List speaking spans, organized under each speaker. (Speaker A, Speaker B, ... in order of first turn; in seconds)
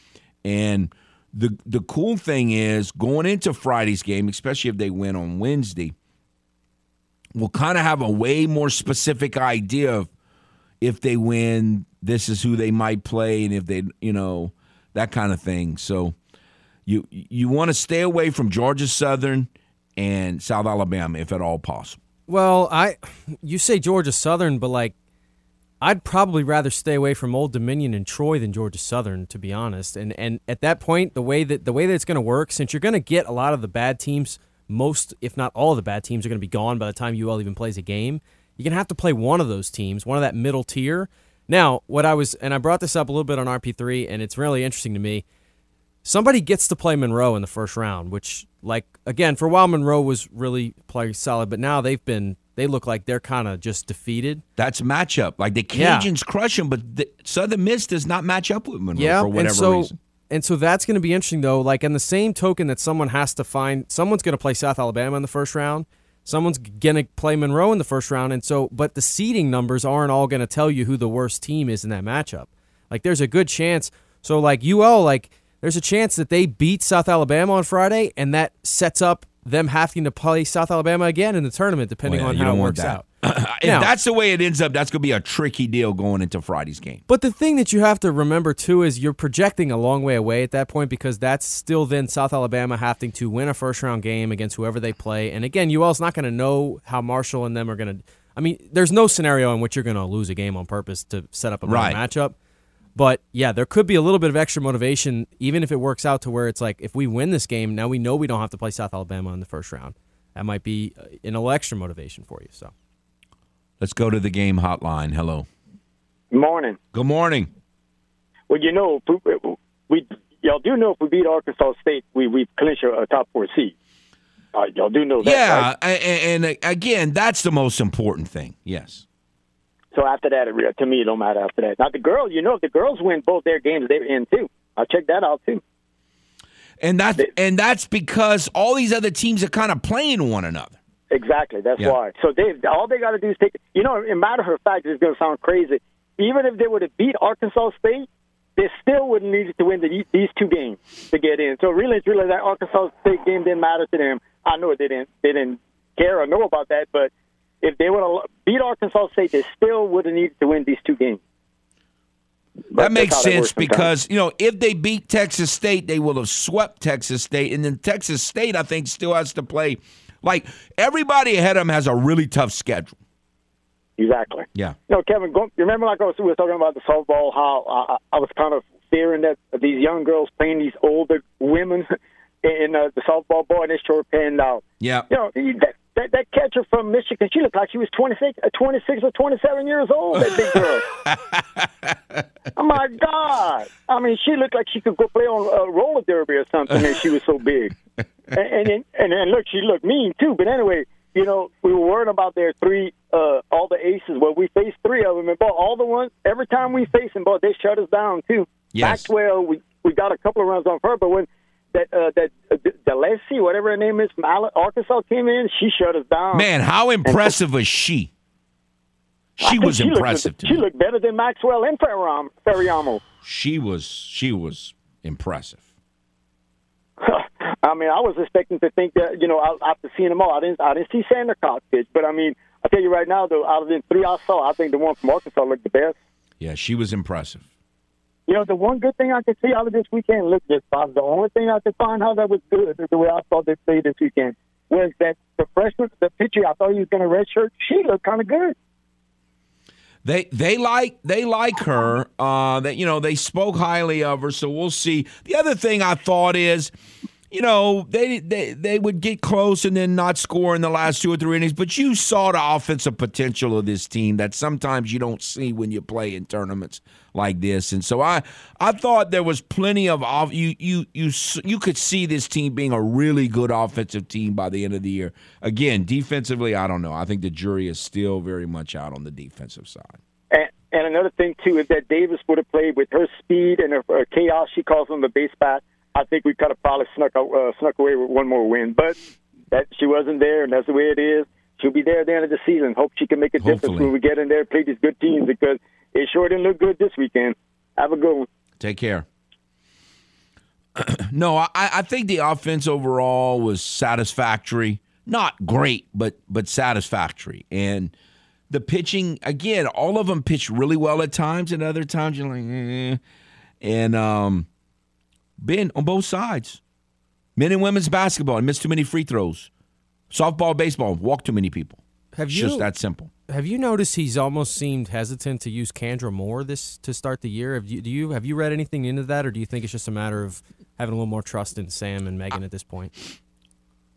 Speaker A: 0.4-5.9, 7.3-10.1, 10.8-16.2, 16.9-22.0, 54.6-60.0, 82.0-87.0, 101.7-102.0, 113.8-115.5, 116.9-117.5, 125.2-129.1, 136.8-140.8, 162.7-173.0, 184.8-185.1, 190.1-192.2, 208.7-209.1, 216.3-218.1, 219.4-220.6, 223.2-225.6, 236.4-237.4, 250.0-256.7, 257.3-280.0, 293.4-293.9, 298.6-299.1, 300.8-307.9, 308.5-313.0, 313.6-314.5, 315.4-316.6, 317.4-319.5, 320.1-323.1
Speaker B: 22.3-24.9, 25.8-45.2, 46.0-54.4, 55.7-56.1, 59.0-83.0, 83.6-83.9, 87.1-102.4, 103.0-112.7, 322.1-322.7, 323.3-332.9
Speaker C: 116.3-116.8, 118.5-123.7, 124.5-125.7, 129.9-135.6, 141.1-157.1, 157.6-161.2, 162.7-163.9, 174.0-181.9, 182.4-190.9, 192.6-197.7, 198.3-216.5, 217.1-217.3, 219.4-223.0, 227.0-235.9, 238.3-248.6, 280.3-288.9, 289.5-298.3